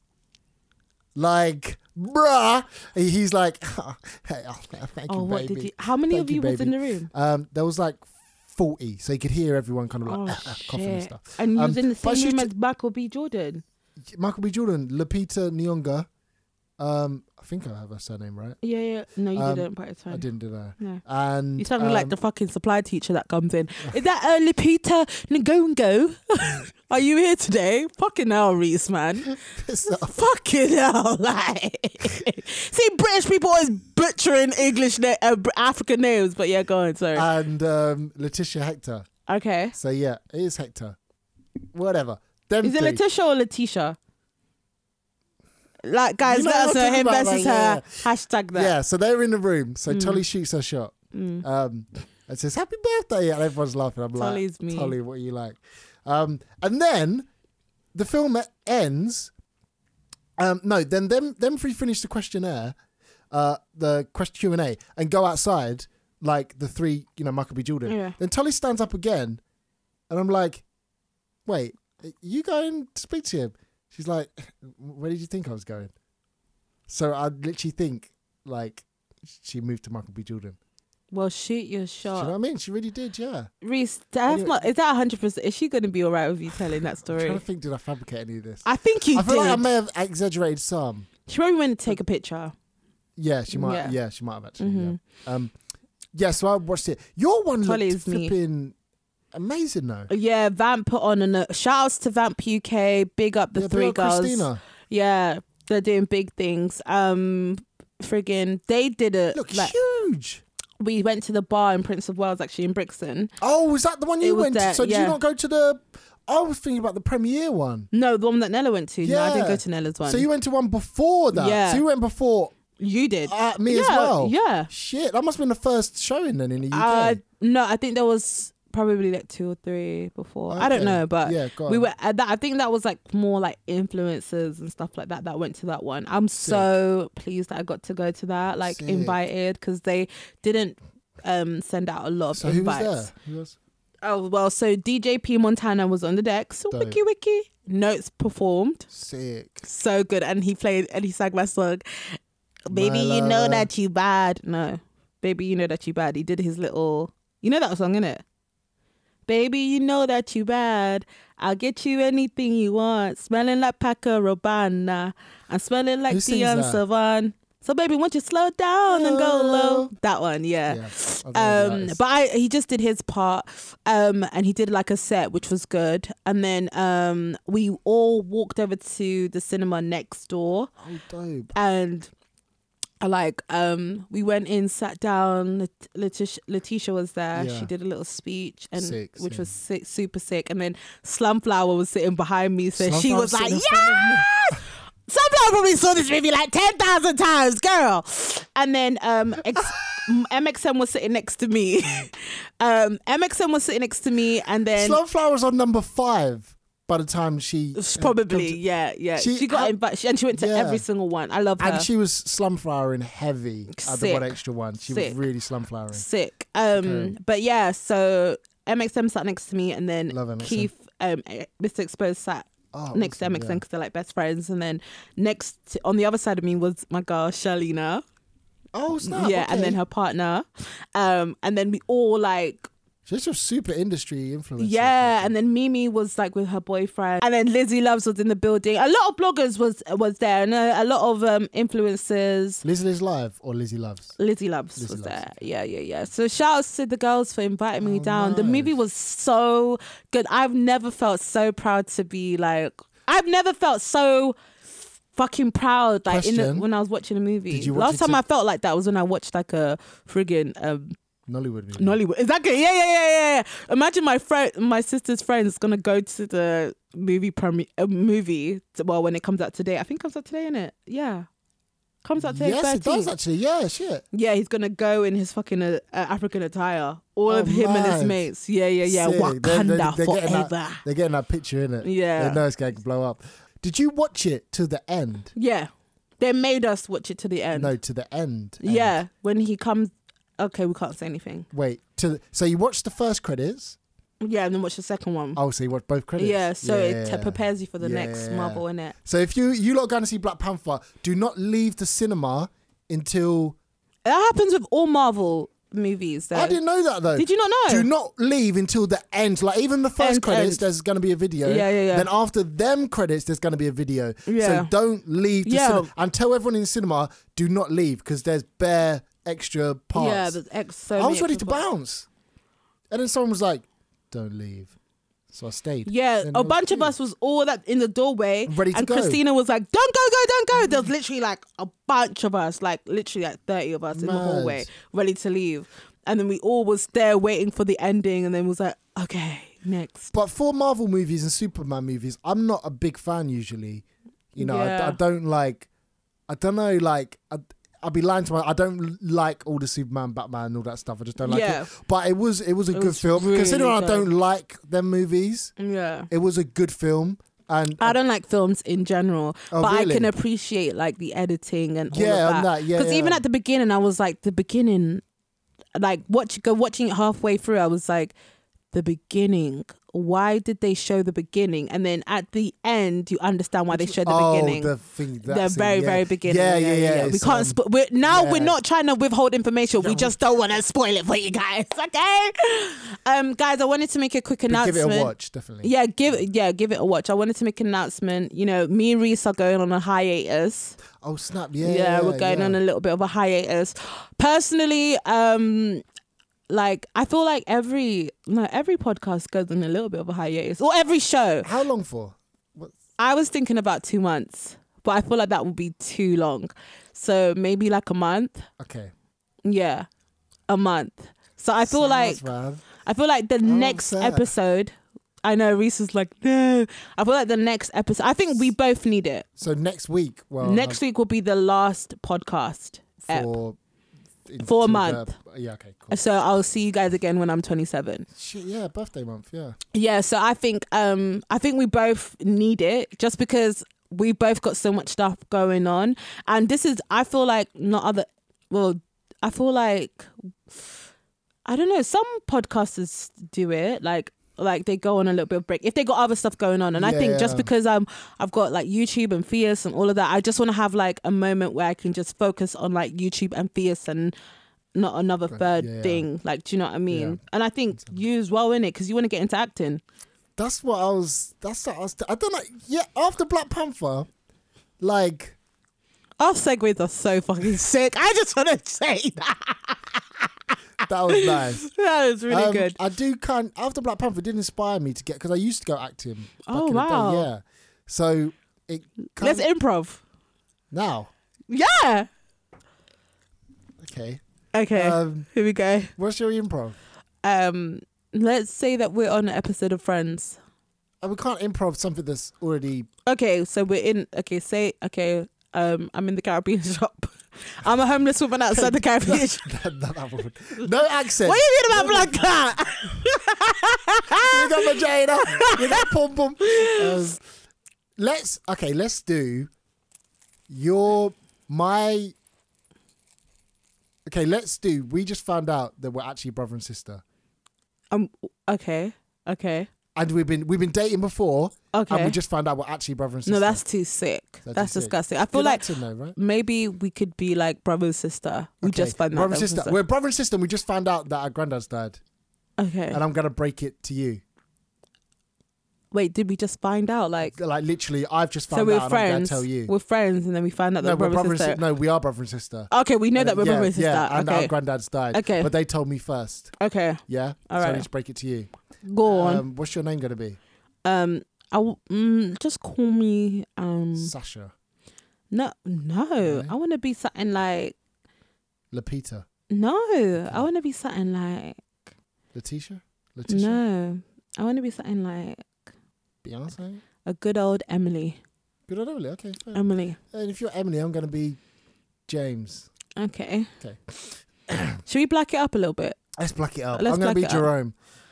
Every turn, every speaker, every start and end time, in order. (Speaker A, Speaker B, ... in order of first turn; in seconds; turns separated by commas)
Speaker A: 1.1-12.5, Speaker B: 5.1-7.1, Speaker B: 10.1-13.6, Speaker A: 14.1-16.1, Speaker A: 16.8-18.6, Speaker B: 18.6-20.2, Speaker A: 19.4-22.1, Speaker B: 21.6-37.3, Speaker A: 29.3-30.2, Speaker A: 37.1-39.1, Speaker B: 39.3-39.8, Speaker A: 39.8-41.0, Speaker A: 41.7-43.0, Speaker B: 42.6-44.0, Speaker B: 45.9-48.7, Speaker A: 46.2-48.0, Speaker A: 48.5-57.3, Speaker B: 49.9-50.2, Speaker B: 51.1-51.4, Speaker B: 54.1-55.0, Speaker A: 57.9-59.3, Speaker A: 60.4-62.8, Speaker A: 63.3-69.4, Speaker B: 67.9-68.2, Speaker A: 70.1-70.6, Speaker A: 71.5-75.9, Speaker A: 76.9-80.6, Speaker B: 81.1-82.3, Speaker A: 82.2-83.5, Speaker B: 83.6-87.4, Speaker A: 84.3-84.6, Speaker A: 87.1-91.1, Speaker B: 88.7-89.7, Speaker B: 91.3-92.5, Speaker A: 93.2-95.5, Speaker B: 93.5-94.0, Speaker B: 94.6-95.0, Speaker A: 96.2-98.8, Speaker B: 97.6-98.3, Speaker A: 99.3-100.1, Speaker B: 100.1-109.7, Speaker A: 103.5-104.6, Speaker A: 109.3-110.4, Speaker B: 110.8-113.3, Speaker A: 113.4-117.9, Speaker B: 114.2-115.2, Speaker B: 117.9-120.3, Speaker A: 119.0-122.5, Speaker B: 121.3-121.8, Speaker B: 122.8-124.7, Speaker A: 123.3-127.2, Speaker B: 126.7-143.1, Speaker A: 130.5-131.9, Speaker A: 136.4-136.7, Speaker A: 138.7-139.2, Speaker A: 142.3-143.6, Speaker B: 144.0-148.9, Speaker A: 146.7-147.0, Speaker A: 148.9-149.6, Speaker B: 149.6-152.2, Speaker B: 152.7-158.2, Speaker A: 152.7-153.7, Speaker B: 159.3-180.7, Speaker A: 166.1-166.8, Speaker A: 168.9-169.9, Speaker A: 170.7-172.0, Speaker A: 180.8-181.5, Speaker B: 181.6-182.1, Speaker B: 183.0-205.0, Speaker A: 187.3-187.7, Speaker A: 188.8-189.5, Speaker A: 192.8-194.6, Speaker A: 204.8-208.6, Speaker B: 207.8-211.9, Speaker A: 209.2-209.7, Speaker A: 210.3-210.8, Speaker A: 211.6-216.1, Speaker B: 213.7-214.3, Speaker B: 214.9-215.2, Speaker B: 215.9-228.0, Speaker A: 216.7-217.2, Speaker A: 220.1-220.7, Speaker A: 222.7-223.6, Speaker A: 228.7-229.8, Speaker B: 229.0-232.7, Speaker A: 233.1-235.3, Speaker B: 234.6-242.6, Speaker A: 242.6-244.2, Speaker B: 244.2-254.4, Speaker A: 244.8-245.3, Speaker A: 247.8-248.8, Speaker B: 255.1-260.9, Speaker A: 256.1-256.7, Speaker A: 257.5-258.2, Speaker A: 261.3-262.0, Speaker B: 261.8-271.3, Speaker B: 272.0-273.1, Speaker A: 272.2-274.1, Speaker B: 274.1-280.8, Speaker A: 277.3-278.2, Speaker A: 278.9-285.3, Speaker B: 281.8-282.4, Speaker B: 285.4-287.7, Speaker A: 287.5-289.0, Speaker B: 288.6-291.5, Speaker A: 291.5-293.8, Speaker B: 294.2-295.4, Speaker A: 295.4-303.6, Speaker B: 296.2-298.9, Speaker B: 304.1-306.6, Speaker A: 306.3-320.4, Speaker B: 307.1-307.9, Speaker B: 310.0-310.6, Speaker B: 311.4-312.1, Speaker B: 314.3-314.7, Speaker B: 315.4-315.9, Speaker B: 319.9-321.6, Speaker A: 321.0-322.1, Speaker A: 322.9-324.7, Speaker A: 325.3-326.9, Speaker B: 325.9-340.1, Speaker A: 328.5-329.2, Speaker A: 333.9-334.7, Speaker A: 340.1-345.7, Speaker B: 344.4-345.0, Speaker A: 346.3-355.5, Speaker B: 351.2-351.7, Speaker B: 352.7-354.1, Speaker B: 355.6-356.1, Speaker A: 356.1-358.0, Speaker B: 357.8-365.0, Speaker A: 359.5-360.1, Speaker A: 361.9-363.2, Speaker B: 365.8-368.1, Speaker B: 368.7-374.7, Speaker A: 373.7-378.6, Speaker B: 375.3-390.8, Speaker A: 379.8-380.1, Speaker A: 384.5-386.2, Speaker A: 391.0-392.6, Speaker B: 391.6-395.8, Speaker B: 396.5-401.5, Speaker A: 401.4-402.8, Speaker B: 403.0-408.5, Speaker A: 408.6-408.9, Speaker B: 409.4-409.9, Speaker B: 410.5-412.2, Speaker A: 411.7-412.7, Speaker B: 412.8-419.3, Speaker A: 413.4-414.3, Speaker A: 419.4-420.8, Speaker B: 420.4-423.3, Speaker A: 423.0-423.6, Speaker A: 424.3-426.1, Speaker B: 424.4-425.1, Speaker B: 425.9-428.1, Speaker A: 428.1-429.6, Speaker B: 429.7-440.1, Speaker B: 441.4-454.1, Speaker A: 446.8-447.5, Speaker B: 454.8-459.8, Speaker A: 455.3-456.1, Speaker A: 456.9-457.2, Speaker A: 457.7-458.0, Speaker A: 460.4-464.1, Speaker A: 464.8-465.4, Speaker B: 466.2-470.0, Speaker A: 470.8-471.6, Speaker B: 471.1-472.8, Speaker A: 472.3-479.5, Speaker B: 476.4-477.3, Speaker B: 479.1-480.0, Speaker A: 480.7-481.1, Speaker B: 481.5-482.1, Speaker A: 483.8-484.2, Speaker B: 484.5-485.9, Speaker A: 484.7-485.3, Speaker A: 486.0-486.8, Speaker B: 487.2-490.4, Speaker A: 491.0-492.9, Speaker B: 493.1-499.5, Speaker A: 498.5-502.3, Speaker B: 501.2-505.9, Speaker A: 504.2-507.2, Speaker B: 506.4-507.1, Speaker A: 508.0-509.5, Speaker A: 510.5-512.1, Speaker A: 514.1-517.0, Speaker B: 517.9-519.7, Speaker A: 520.0-523.6, Speaker B: 521.7-522.2, Speaker B: 523.3-525.6, Speaker A: 524.5-526.2, Speaker B: 526.2-529.8, Speaker A: 528.6-532.0, Speaker B: 532.6-533.0, Speaker A: 532.9-534.2, Speaker B: 535.9-537.4, Speaker A: 537.3-539.7, Speaker B: 538.5-541.6, Speaker A: 540.8-546.5, Speaker B: 542.7-544.5, Speaker B: 545.1-545.5, Speaker B: 546.6-547.9, Speaker A: 547.1-548.5, Speaker B: 548.9-549.4, Speaker A: 549.0-550.4, Speaker B: 550.8-554.1, Speaker A: 554.0-554.5, Speaker B: 555.3-557.8, Speaker A: 556.2-556.5, Speaker A: 558.7-559.3, Speaker B: 559.5-561.7, Speaker A: 562.3-563.6, Speaker B: 563.3-565.6, Speaker A: 566.2-566.8, Speaker B: 567.0-568.2, Speaker A: 568.7-571.4, Speaker B: 569.5-570.0, Speaker A: 572.1-572.7, Speaker B: 573.0-573.5, Speaker A: 573.6-574.8, Speaker B: 574.9-576.0, Speaker A: 576.1-577.7, Speaker B: 576.7-577.5